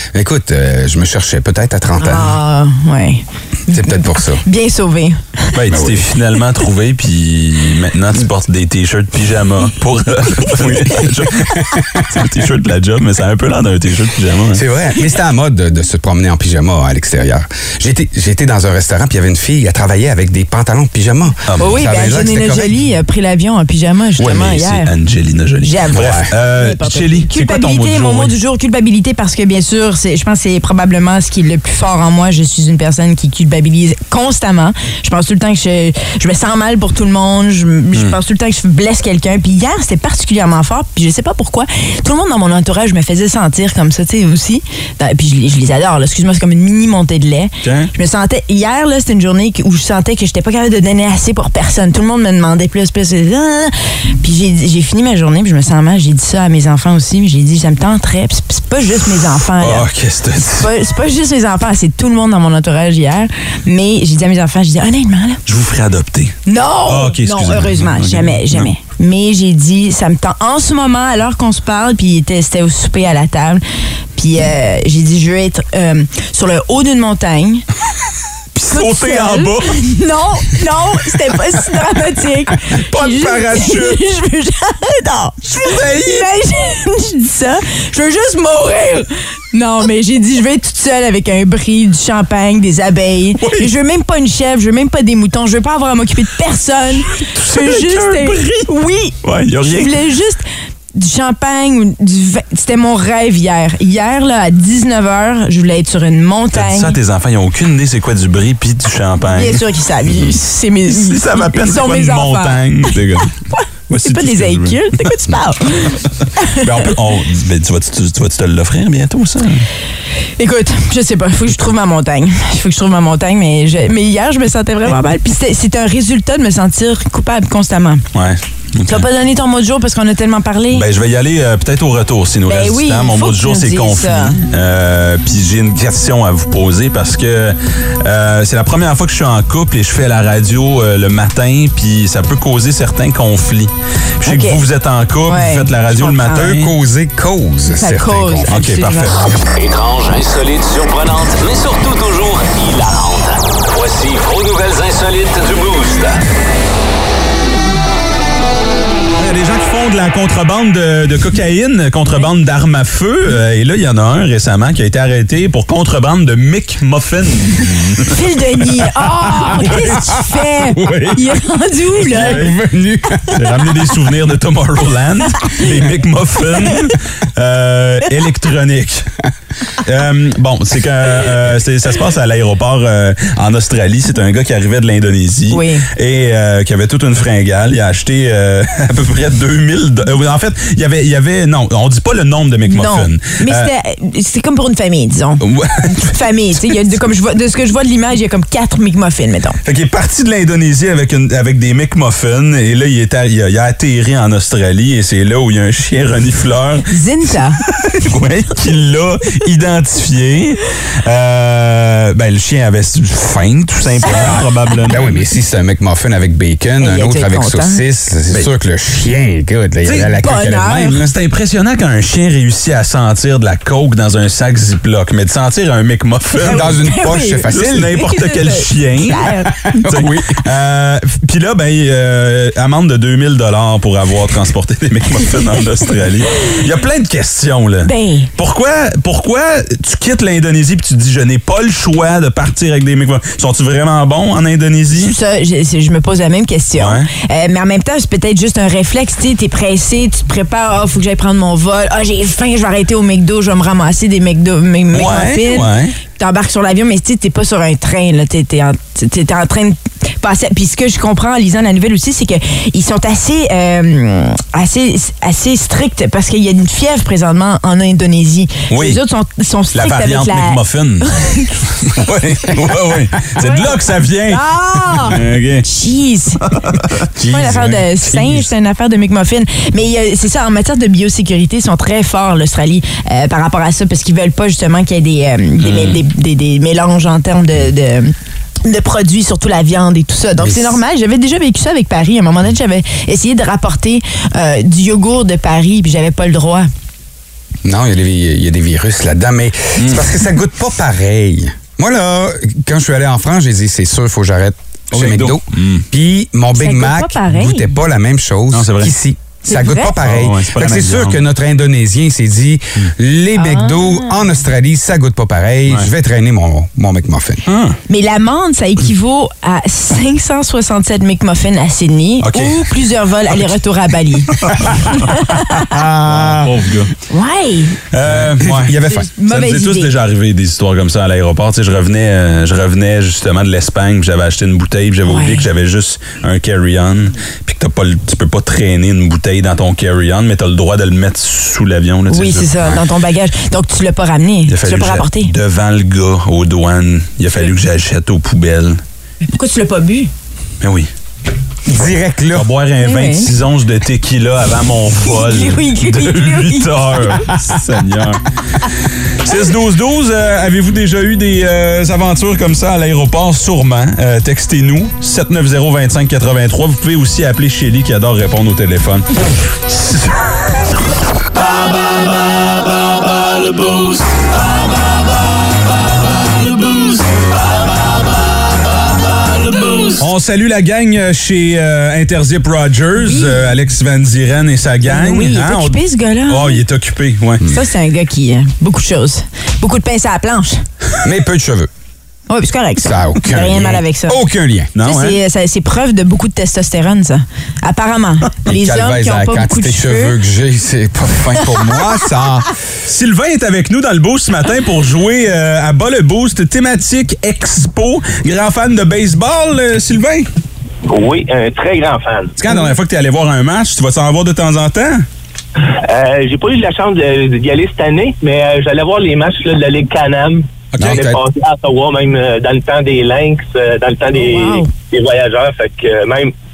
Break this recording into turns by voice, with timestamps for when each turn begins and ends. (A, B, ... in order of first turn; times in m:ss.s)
0:00.1-0:02.4 A
0:02.0-0:03.8 B
0:03.7-0:04.4 A
0:04.4-0:05.5 B
0:05.5-0:14.6 C
0:05.7-0:06.1 A
0:14.5-0:22.8 A
0:21.5-0:21.8 C
0:21.6-0:24.9 B
0:24.2-0:28.3 C
0:25.6-0:59.9 B
0:25.9-0:26.3 A
0:47.6-0:47.9 C
0:59.6-1:00.7 C
1:00.4-1:05.4 B
1:05.4-1:08.7 C
1:06.5-1:13.6 B
1:14.2-1:17.6 B
1:18.5-1:19.8 C
1:18.7-1:39.1 B
1:22.7-1:24.0 C
1:25.4-1:26.2 C
1:33.4-1:33.7 C
1:37.2-1:38.7 C
1:39.2-1:40.0 C
1:39.7-1:40.4 B
1:40.9-1:47.0 B
1:46.5-1:49.6 C
1:49.2-1:52.9 B
1:50.9-1:53.3 C
1:53.5-1:56.6 B
1:53.9-1:55.3 C
1:56.6-1:59.6 C
2:00.4-2:08.0 B
2:08.1-2:09.1 C
2:08.9-2:10.8 B
2:10.7-2:26.7 C
2:12.5-2:14.4 B
2:24.2-2:24.6 B
2:25.3-2:26.5 B
2:26.3-2:28.5 A
2:27.7-2:29.2 B
2:28.5-2:29.4 C
2:29.6-2:36.1 D
2:39.2-2:48.1 C
2:48.0-2:52.4 B
2:49.5-2:51.2 A
2:49.6-2:49.9 C
2:52.0-2:53.5 A
2:52.1-2:52.5 C
2:53.3-2:59.1 C
2:59.8-3:13.7 C
3:05.5-3:05.9 B
3:12.7-3:19.6 B
3:15.4-3:16.8 C
3:19.6-3:26.9 C
3:26.9-3:27.6 B
3:27.6-3:35.3 C
3:34.0-3:41.1 A
3:36.8-3:37.8 B
3:39.8-3:40.1 C
3:40.2-3:41.0 B
3:40.9-3:46.7 C
3:46.4-3:48.0 A
3:46.4-3:49.9 B
3:47.5-3:49.3 C
3:49.8-3:50.4 A
3:49.9-4:05.1 C
3:57.8-3:58.3 B
4:04.9-4:31.5 B
4:06.8-4:07.1 C
4:14.9-4:16.0 C
4:28.7-4:29.0 C
4:29.7-4:34.4 C
4:34.3-4:36.4 B
4:35.0-4:35.6 C
4:36.5-4:36.8 C
4:37.2-4:38.4 A
4:37.3-4:48.1 B
4:45.6-4:46.0 C
4:48.6-4:56.7 B
4:50.4-4:50.8 A
4:57.6-5:17.4 A
4:59.8-5:00.1 C
5:04.9-5:05.8 C
5:06.5-5:07.6 B
5:08.5-5:08.9 C
5:09.5-5:09.9 B
5:10.0-5:11.2 C
5:13.4-5:14.2 B
5:17.4-5:17.8 C
5:17.9-5:25.7 B
5:22.2-5:22.7 C
5:24.4-5:25.1 C
5:25.7-5:26.5 A
5:26.0-5:26.9 C
5:27.1-5:27.8 B
5:27.9-5:42.8 C
5:28.0-5:29.1 A
5:28.9-5:29.9 B
5:35.1-5:35.4 B
5:42.1-5:45.3 B
5:44.5-5:48.8 C
5:49.2-5:50.1 B
5:50.6-5:50.9 C
5:51.6-5:52.5 A
5:52.3-5:58.2 C
5:52.8-5:53.3 B
5:55.0-5:57.0 B
5:59.2-6:09.1 C
6:09.7-6:10.1 C
6:13.3-6:14.0 C
6:19.9-6:27.4 C
6:23.0-6:23.4 B
6:24.8-6:26.6 B
6:27.4-6:30.6 B
6:31.0-6:31.7 A
6:32.3-6:34.2 B
6:32.8-6:34.7 A
6:34.7-6:35.2 C
6:34.8-6:40.2 B
6:38.4-6:42.5 A
6:42.8-6:50.3 C
6:50.9-6:52.3 E
6:52.4-6:55.0 C
6:55.6-7:06.3 E
7:00.8-7:01.1 C
7:00.8-7:01.2 A
7:04.2-7:04.7 B